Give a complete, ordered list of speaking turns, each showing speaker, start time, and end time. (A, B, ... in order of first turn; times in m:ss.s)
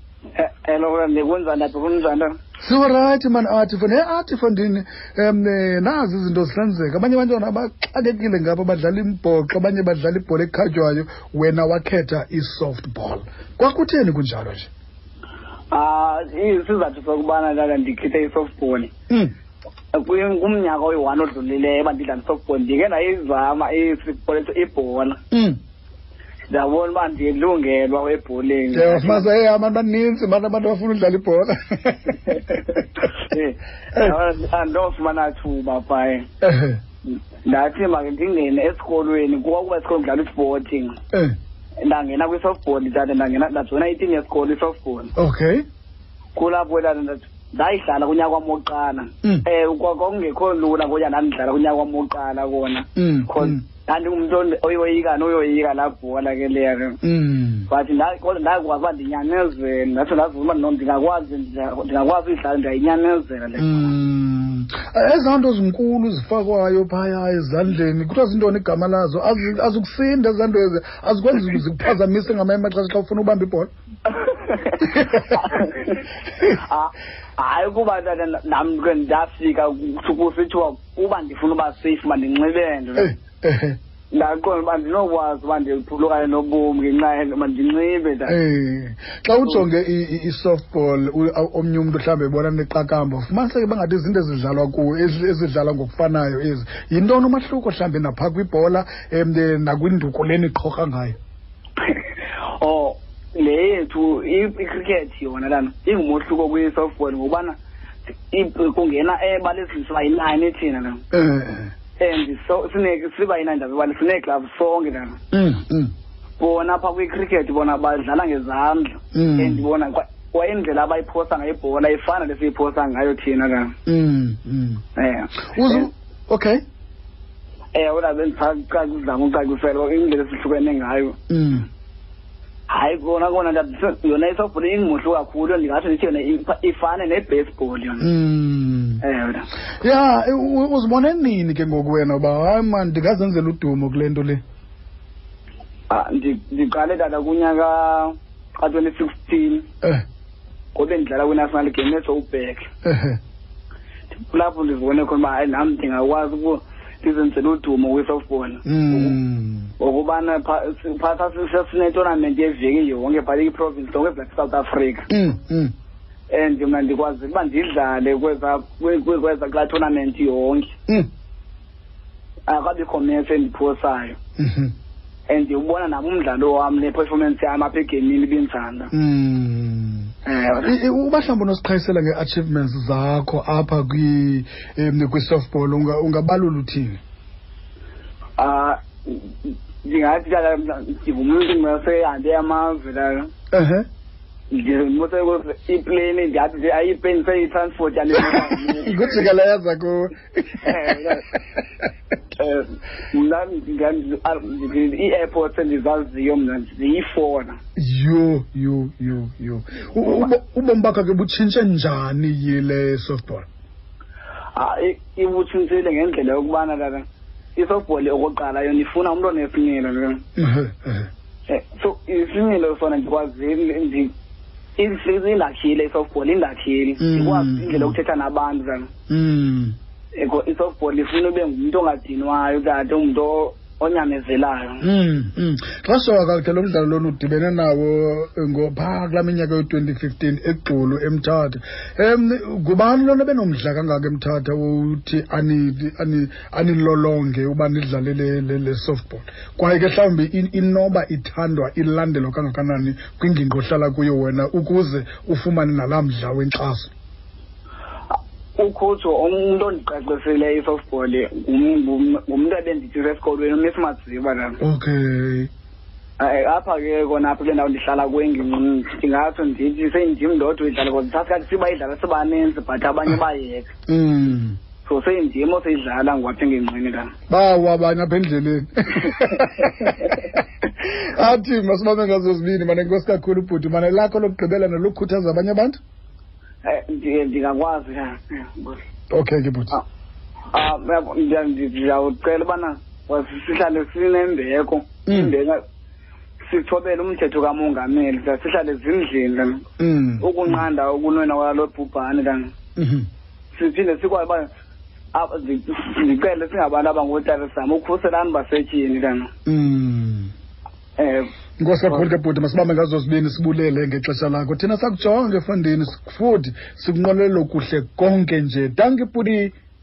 0:00.4-0:02.4 A
0:02.6-0:14.7 B
0:15.7-0:18.9 A
0:19.9-0:25.2 A
0:25.3-0:25.6 B
0:26.5-0:29.3 A
0:28.7-0:32.9 B
0:33.1-0:36.3 A
0:36.4-0:36.8 B
0:37.4-0:41.0 A
0:41.8-0:45.1 A
0:45.2-0:45.6 B
0:46.4-0:57.0 A
0:53.0-0:53.6 B
0:57.0-0:57.7 B
0:57.7-1:03.8 A
1:03.6-1:13.7 B
1:14.1-1:23.1 A
1:14.8-1:15.5 B
1:23.0-1:23.8 B
1:24.1-1:28.4 A
1:28.3-1:41.2 B
1:41.8-1:47.6 A
1:48.3-1:51.0 A
1:51.1-1:51.7 B
1:52.0-1:55.2 A
1:55.3-1:55.9 B
1:56.4-2:03.7 A
1:59.1-1:59.6 B
2:03.9-2:04.8 B
2:05.0-2:05.9 A
2:05.4-2:06.6 B
2:07.7-2:11.2 A
2:11.3-2:11.7 B
2:12.7-2:18.0 A
2:18.0-2:19.0 B
2:19.0-2:19.5 A
2:19.8-2:24.4 B
2:25.9-2:29.7 A
2:30.8-2:32.7 A
2:32.8-2:33.2 B
2:34.1-2:39.2 A
2:38.7-2:39.7 B
2:39.8-2:45.1 A
2:45.1-2:45.7 B
2:46.3-2:50.7 A
2:52.5-2:54.2 A
2:54.4-2:54.7 B
2:55.3-2:58.9 A
2:58.9-3:07.0 B
3:00.3-3:00.7 A
3:08.4-3:13.3 A
3:13.5-3:13.9 B
3:14.5-3:19.2 A
3:18.4-3:21.6 B
3:20.6-3:21.3 A
3:22.4-3:27.6 A
3:27.8-3:33.5 B
3:34.6-3:40.2 A
3:40.4-3:41.1 B
3:41.5-3:44.1 A
3:44.8-3:48.9 A
3:47.0-3:48.0 B
3:49.1-3:49.8 B
3:50.2-3:54.8 A
3:54.8-4:16.9 B
4:18.1-4:24.6 A
4:24.6-4:25.5 B
4:26.2-4:33.7 A
4:33.9-4:34.6 B
4:34.9-4:37.1 A
4:37.3-4:45.8 B
4:46.6-4:48.8 A
4:49.1-4:49.8 B
4:50.5-4:55.6 A
4:55.1-4:55.3 B
4:56.4-4:59.7 A
4:59.8-5:00.6 B
5:00.2-5:02.5 A
5:02.8-5:03.1 B
5:03.5-5:04.5 A
5:05.1-5:09.3 A
5:09.5-5:10.3 B
5:11.0-5:11.3 A
5:11.6-5:19.5 B